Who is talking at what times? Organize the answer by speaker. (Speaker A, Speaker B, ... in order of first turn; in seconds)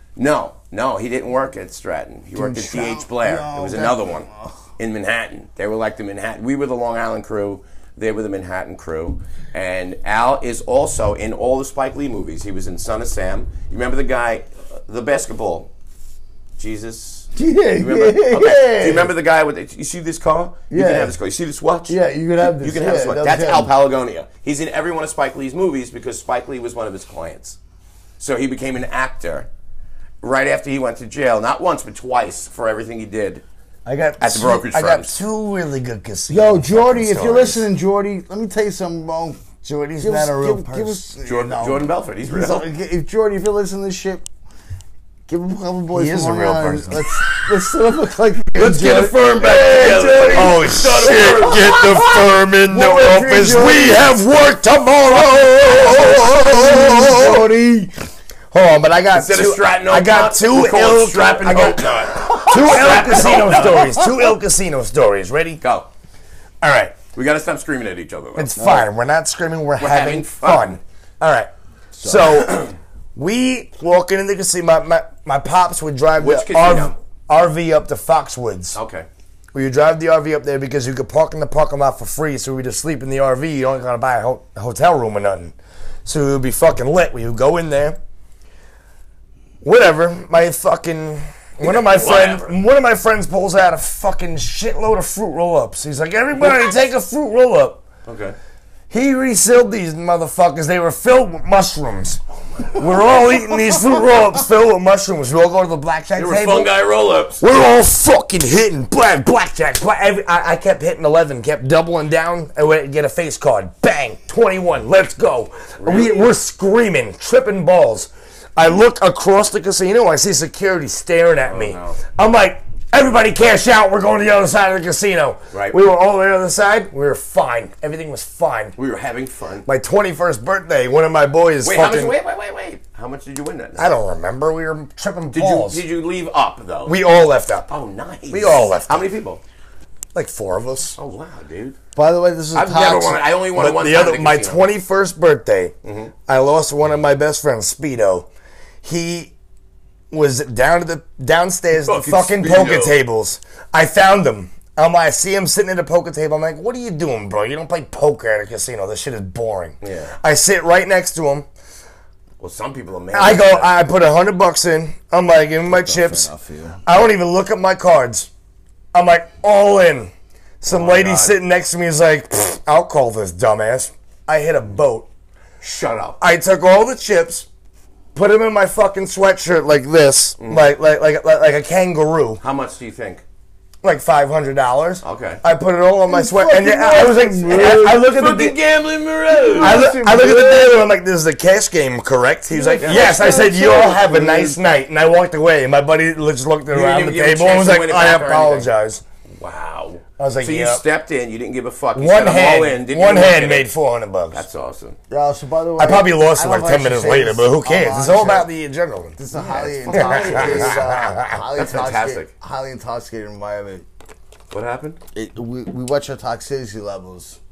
Speaker A: 0.1-15.7, 16.6-22.0, 22.5-27.6, 28.2-29.5, 30.2-33.4, 34.2-35.2, 41.2-42.7, 48.5-52.0, 59.1-64.0, 65.6-65.9, 67.1-68.6, 69.8-70.8, 72.3-72.7, 76.2-77.0, 78.7-79.1, 91.6-92.5, 98.0-98.3, 102.6-102.8, 106.2-107.4, 115.8-116.3, 121.5-122.0, 125.5-125.8, 128.8-129.7, 131.6-133.9, 135.3-137.0, 137.7-139.4, 140.9-141.8, 142.5-144.6, 145.8-146.1, 151.8-152.9, 159.8-160.1, 162.4-163.8, 170.7-171.4, 175.6-176.2, 180.4-180.7, 182.4-183.2, 185.0-185.4, 187.5-189.9, 192.8-193.2, 196.7-198.7, 199.4-203.7, 204.3-205.0, 209.3-210.8, 211.6-212.3, 214.5-215.0
Speaker B: 2.4-4.6, 17.4-19.1, 20.7-21.1, 21.9-23.7, 36.3-39.4, 40.0-44.2, 45.3-54.1, 55.6-57.9, 62.1-64.1, 68.6-68.9, 141.9-143.2, 165.7-166.8, 186.1-188.1, 189.3-190.9, 192.5-194.7, 205.1-208.5, 209.2-213.8, 215.1-217.4
Speaker C: 33.9-37.6, 39.6-41.0, 45.9-47.2, 49.8-57.5, 58.5-65.6, 66.6-66.9, 68.4-78.8, 79.5-85.5, 86.0-88.0, 89.6-97.8, 98.9-102.2, 102.7-106.7, 107.4-128.7, 129.7-132.1, 133.8-135.8, 136.9-137.7, 138.3-139.1, 140.1-140.9, 143.5-145.7, 146.3-148.3, 148.8-149.3, 150.1-161.4, 163.1-166.3, 166.8-168.3, 168.9-170.1, 170.6-175.1, 176.2-177.5, 178.1-182.4, 183.8-188.6, 189.5-199.0, 200.2-200.8, 201.9-204.4, 205.8-209.2, 209.9-211.4